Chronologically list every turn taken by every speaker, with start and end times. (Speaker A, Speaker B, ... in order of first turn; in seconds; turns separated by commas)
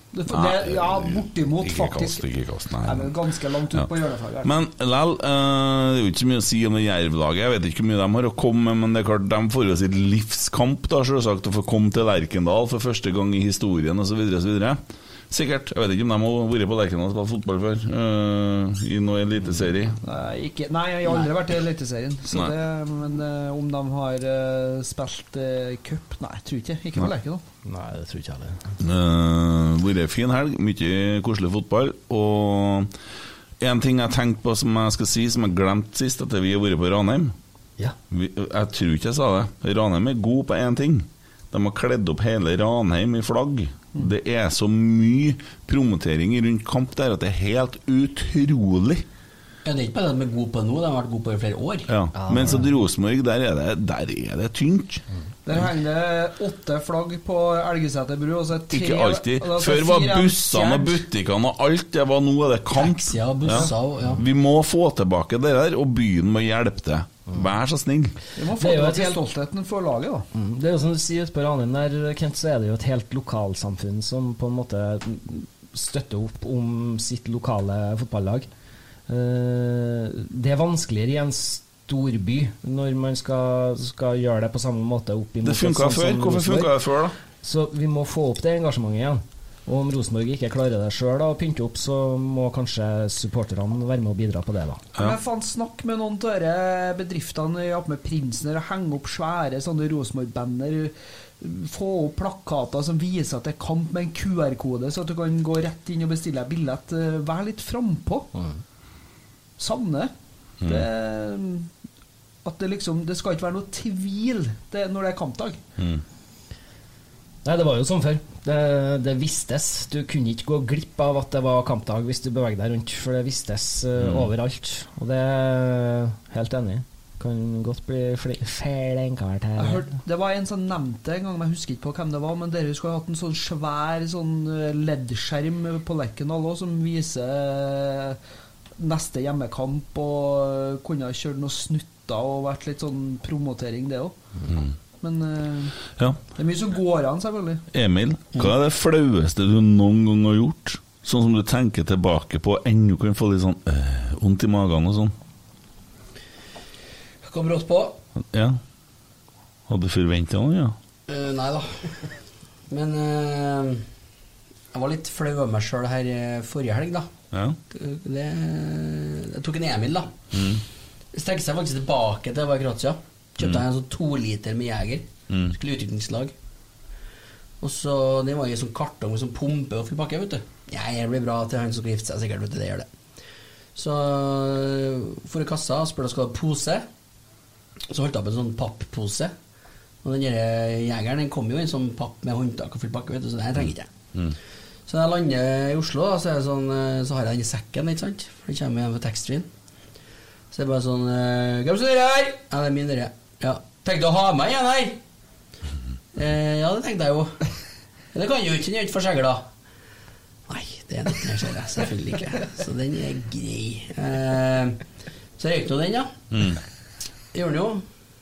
Speaker A: 0.1-2.2, Speaker B: 0.3-3.1, Speaker A: 2.8-4.6, Speaker B: 4.4-20.0, Speaker A: 20.0-27.4, Speaker C: 27.6-28.6, Speaker B: 28.8-32.9, Speaker B: 33.6-37.3, Speaker B: 38.1-49.0, Speaker D: 49.6-51.9, Speaker B: 51.9-55.0, Speaker C: 52.2-52.6, Speaker A: 55.5-61.0, Speaker B: 58.7-68.2, Speaker D: 62.7-64.2, Speaker A: 68.3-70.2, Speaker C: 68.6-69.2, Speaker C: 70.3-78.5, Speaker C: 79.1-86.7, Speaker B: 85.4-87.1, Speaker C: 87.4-94.8, Speaker A: 95.0-108.3, Speaker A: 109.6-110.1, Speaker B: 110.6-110.9, Speaker A: 110.6-111.7, Speaker A: 112.4-115.6, Speaker B: 115.8-116.0, Speaker C: 117.4-129.8, Speaker B: 124.0-124.3, Speaker A: 129.6-138.2, Speaker A: 138.8-144.2, Speaker B: 144.5-144.7, Speaker A: 145.0-145.8, Speaker A: 146.3-147.6, Speaker B: 147.7-155.1, Speaker D: 157.2-158.0, Speaker B: 158.3-158.6, Speaker B: 159.7-160.7, Speaker D: 161.1-162.1, Speaker D: 162.7-163.8, Speaker D: 164.7-167.1, Speaker D: 167.7-170.2, Speaker B: 170.3-170.6, Speaker D: 171.1-176.3, Speaker B: 175.3-175.5, Speaker D: 177.6-182.9, Speaker D: 183.7-186.8, Speaker D: 187.9-189.3, Speaker D: 190.0-193.9, Speaker D: 194.9-199.5, Speaker D: 200.5-205.0, Speaker D: 206.1-207.4, Speaker D: 208.1-209.5, Speaker D: 210.5-214.8, Speaker D: 215.4-216.2, Speaker B: 216.3-216.6, Speaker D: 217.3-217.8